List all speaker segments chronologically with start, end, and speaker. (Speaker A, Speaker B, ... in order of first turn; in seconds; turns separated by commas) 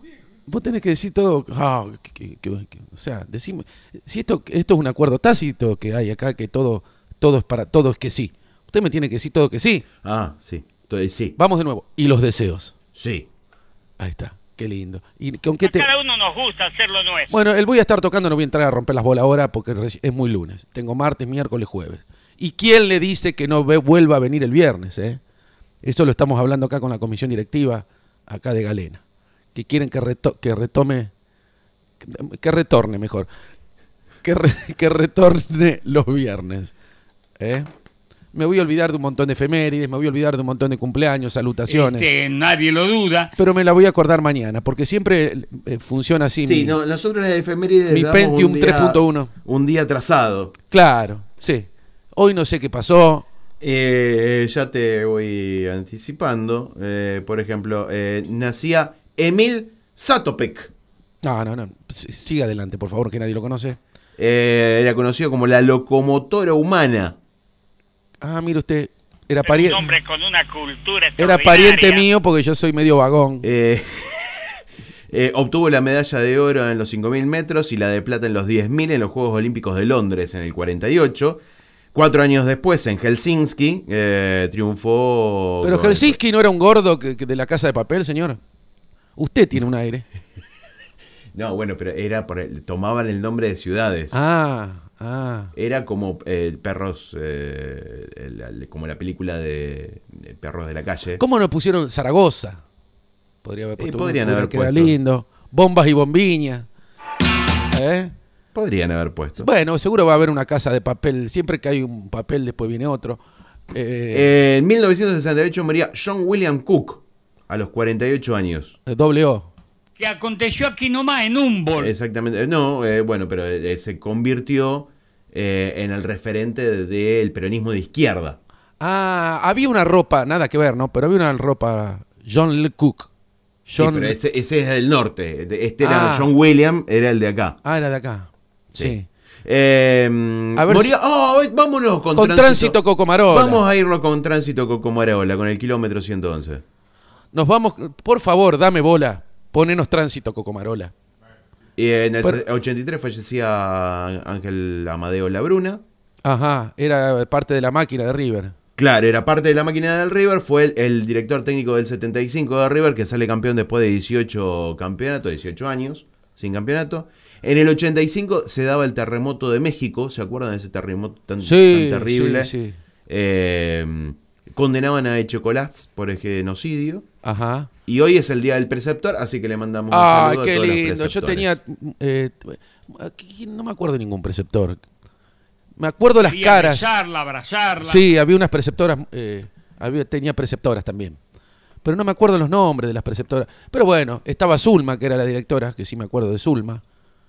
Speaker A: 0.5-9.8, Speaker B: 10.0-11.3, Speaker A: 11.4-12.7, Speaker B: 12.9-13.3, Speaker A: 14.0-15.9, Speaker C: 15.6-17.3, Speaker A: 17.3-25.2, Speaker A: 25.8-29.0, Speaker A: 29.5-31.1, Speaker A: 32.0-33.3, Speaker A: 34.2-36.7, Speaker A: 37.4-37.7, Speaker A: 38.3-42.1, Speaker C: 41.7-43.3, Speaker A: 43.4-46.8, Speaker B: 46.4-50.5, Speaker A: 47.9-49.3, Speaker A: 50.7-53.2, Speaker B: 53.6-60.7, Speaker A: 61.2-63.8, Speaker B: 64.2-67.2, Speaker A: 68.2-69.9, Speaker C: 69.4-72.0, Speaker A: 71.2-73.5, Speaker B: 73.4-74.5, Speaker B: 75.1-81.4, Speaker B: 81.9-86.2, Speaker A: 85.6-88.4, Speaker A: 89.2-90.0, Speaker B: 91.3-94.2, Speaker A: 94.1-95.5, Speaker B: 95.5-101.2, Speaker A: 101.2-102.6, Speaker A: 103.4-106.7, Speaker B: 103.8-104.9, Speaker A: 107.7-108.1, Speaker B: 108.5-109.5, Speaker A: 109.4-113.2, Speaker A: 113.7-114.3, Speaker B: 114.1-118.8, Speaker A: 118.8-119.5, Speaker C: 120.0-121.9, Speaker B: 121.8-128.4, Speaker A: 128.8-133.1, Speaker A: 133.7-134.2, Speaker B: 133.8-137.6, Speaker A: 135.8-136.3, Speaker A: 137.6-139.1, Speaker B: 138.7-146.6, Speaker A: 140.6-140.9, Speaker A: 142.1-143.6, Speaker A: 147.3-150.9, Speaker B: 151.8-155.8, Speaker A: 156.2-158.5, Speaker B: 158.8-172.5, Speaker A: 171.4-172.8, Speaker B: 173.1-177.1, Speaker A: 177.2-177.7, Speaker B: 177.8-181.5, Speaker A: 179.9-184.8, Speaker A: 185.8-186.9, Speaker C: 186.2-188.0, Speaker A: 187.8-191.2, Speaker A: 191.8-196.8